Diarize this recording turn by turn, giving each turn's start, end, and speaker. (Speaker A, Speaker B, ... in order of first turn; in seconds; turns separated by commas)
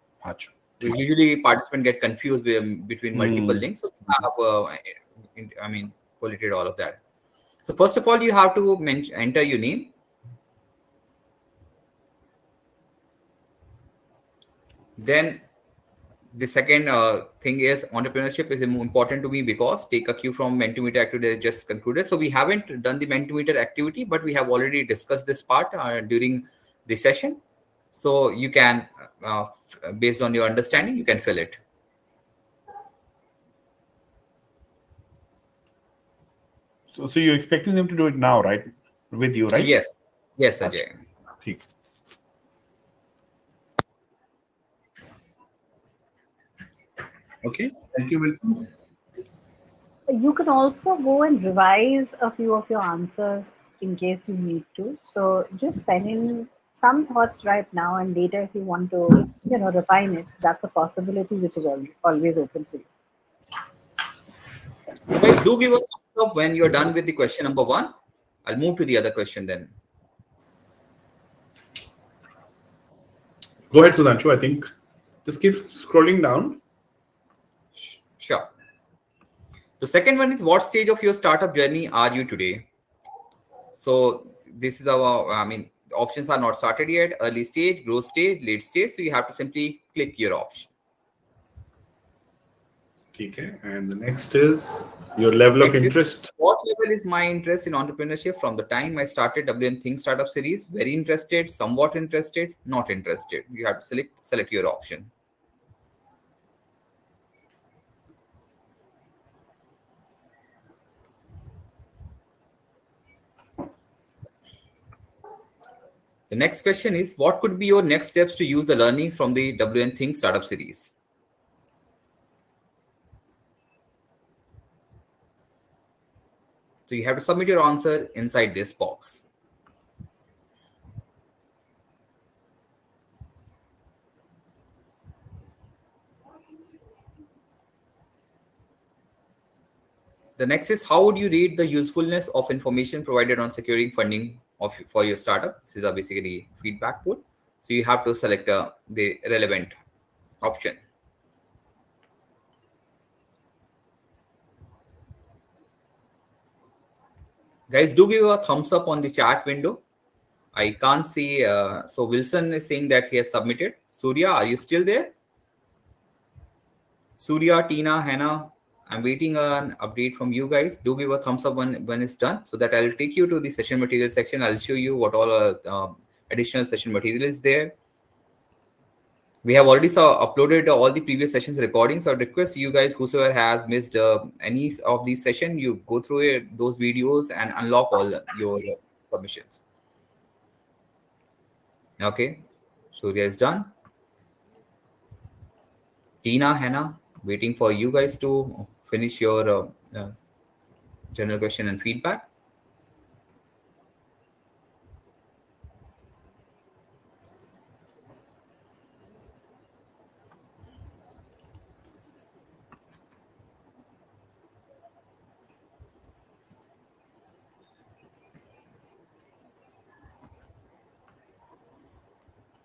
Speaker A: 0.2-0.5, Speaker B: 0.8-7.0, Speaker A: 3.1-3.6, Speaker B: 7.6-9.9, Speaker B: 15.0-15.4, Speaker B: 16.3-27.4, Speaker B: 27.9-31.6, Speaker A: 36.9-39.7, Speaker B: 39.5-41.0, Speaker A: 47.4-48.7, Speaker C: 50.1-62.9, Speaker B: 65.1-67.9, Speaker B: 68.4-69.7, Speaker A: 73.7-74.7, Speaker A: 75.2-76.6, Speaker B: 77.8-78.5, Speaker B: 79.8-82.7, Speaker B: 83.7-90.7, Speaker A: 93.1-96.3, Speaker B: 95.6-105.1, Speaker B: 116.3-120.9, Speaker B: 126.9-129.2, Speaker B: 140.4-149.7, Speaker B: 150.4-150.8, Speaker B: 157.7-159.8, Speaker B: 160.5-165.1, Speaker B: 167.2-177.7, Speaker B: 179.4-189.6, Speaker B: 192.0-193.7, Speaker B: 196.2-200.1, Speaker B: 201.1-202.2